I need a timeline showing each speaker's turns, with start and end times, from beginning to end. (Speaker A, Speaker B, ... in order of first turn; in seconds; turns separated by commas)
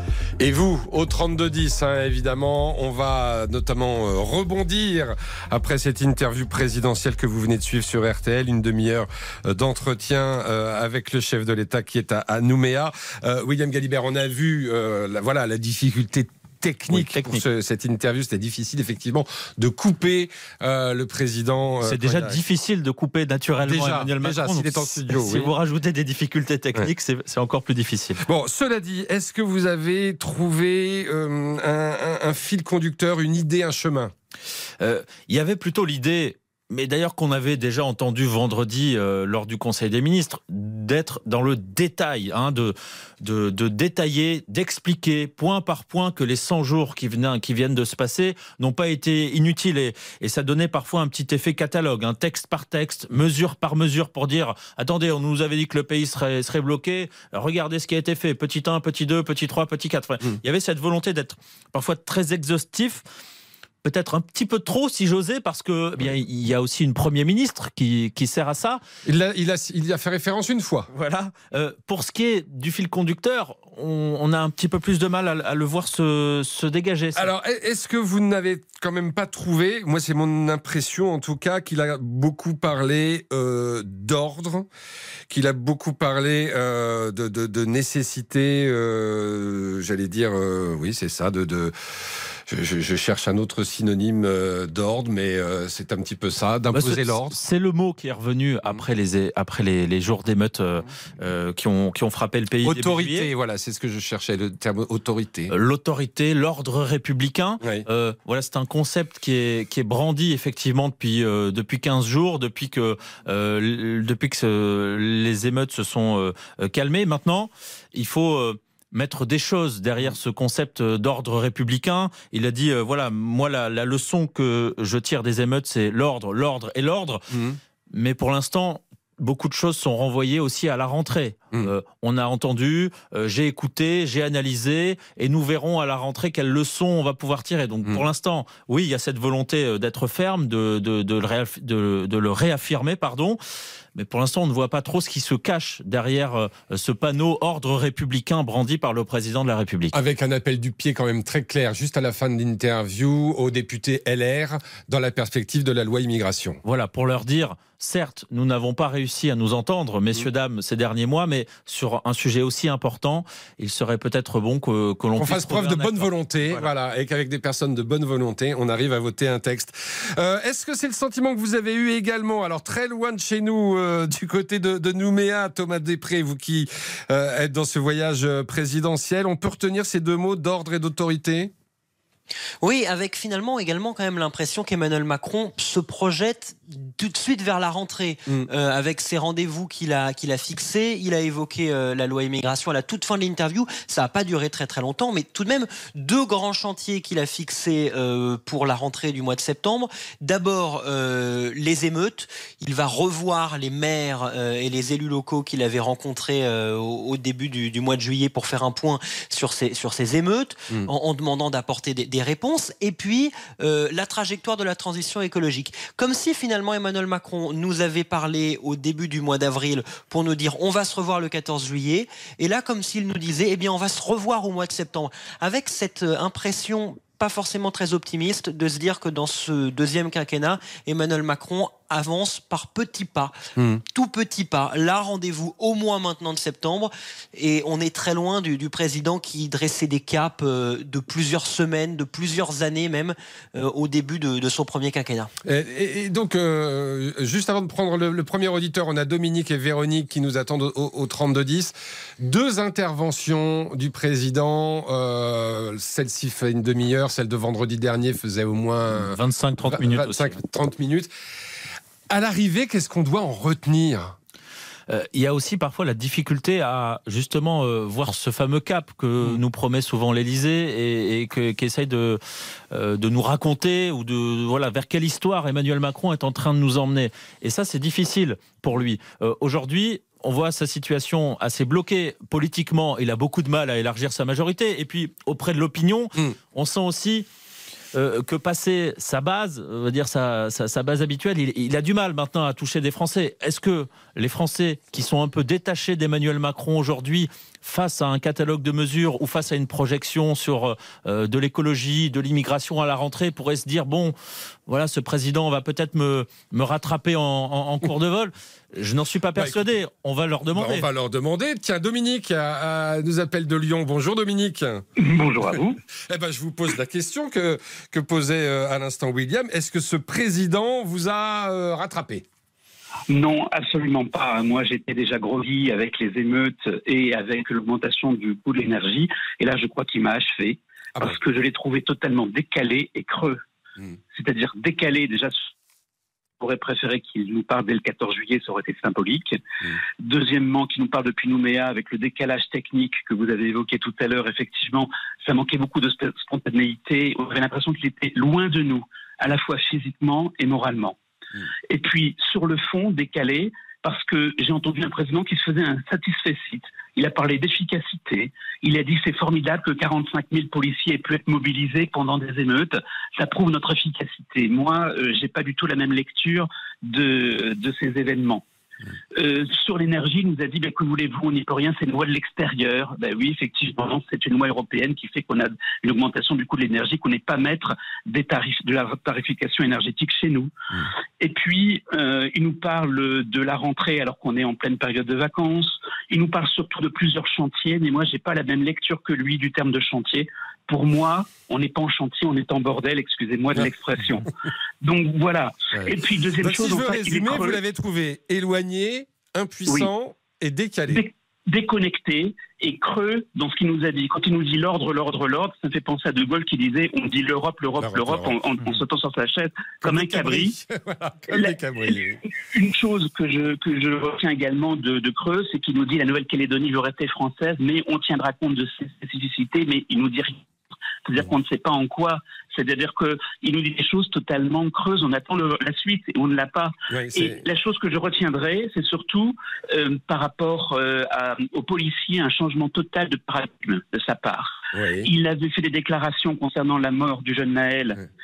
Speaker A: 0.4-22.4, Speaker B: 16.9-17.4, Speaker B: 21.8-28.2, Speaker A: 23.6-25.5, Speaker A: 28.2-34.1, Speaker B: 34.8-63.0, Speaker B: 63.8-68.8, Speaker A: 69.1-70.9, Speaker B: 70.9-77.3, Speaker A: 77.2-84.7, Speaker A: 85.3-91.7, Speaker A: 92.5-97.4, Speaker B: 96.8-103.3, Speaker A: 102.6-105.5, Speaker B: 105.5-127.2, Speaker A: 127.3-127.6, Speaker B: 127.9-143.4, Speaker B: 143.9-149.9, Speaker A: 149.9-156.6, Speaker B: 156.7-166.7, Speaker A: 165.2-181.5, Speaker C: 182.6-245.3, Speaker A: 245.4-261.1, Speaker B: 259.0-260.4, Speaker A: 262.1-264.2, Speaker B: 264.9-272.2, Speaker B: 272.7-287.3, Speaker B: 287.9-304.2, Speaker B: 304.7-310.9, Speaker A: 309.4-309.7, Speaker A: 310.5-314.8, Speaker D: 315.0-315.8, Speaker A: 316.1-322.2, Speaker D: 323.1-333.4, Speaker D: 334.1-335.4, Speaker D: 336.4-339.4, Speaker D: 340.0-351.0, Speaker D: 351.7-368.4, Speaker D: 369.1-380.5, Speaker D: 381.2-394.3, Speaker D: 394.8-397.6, Speaker A: 396.4-401.0, Speaker D: 400.9-410.6, Speaker A: 407.8-408.4, Speaker A: 409.8-412.2, Speaker D: 411.3-420.4, Speaker D: 421.1-438.0, Speaker A: 426.9-427.4, Speaker A: 434.7-435.1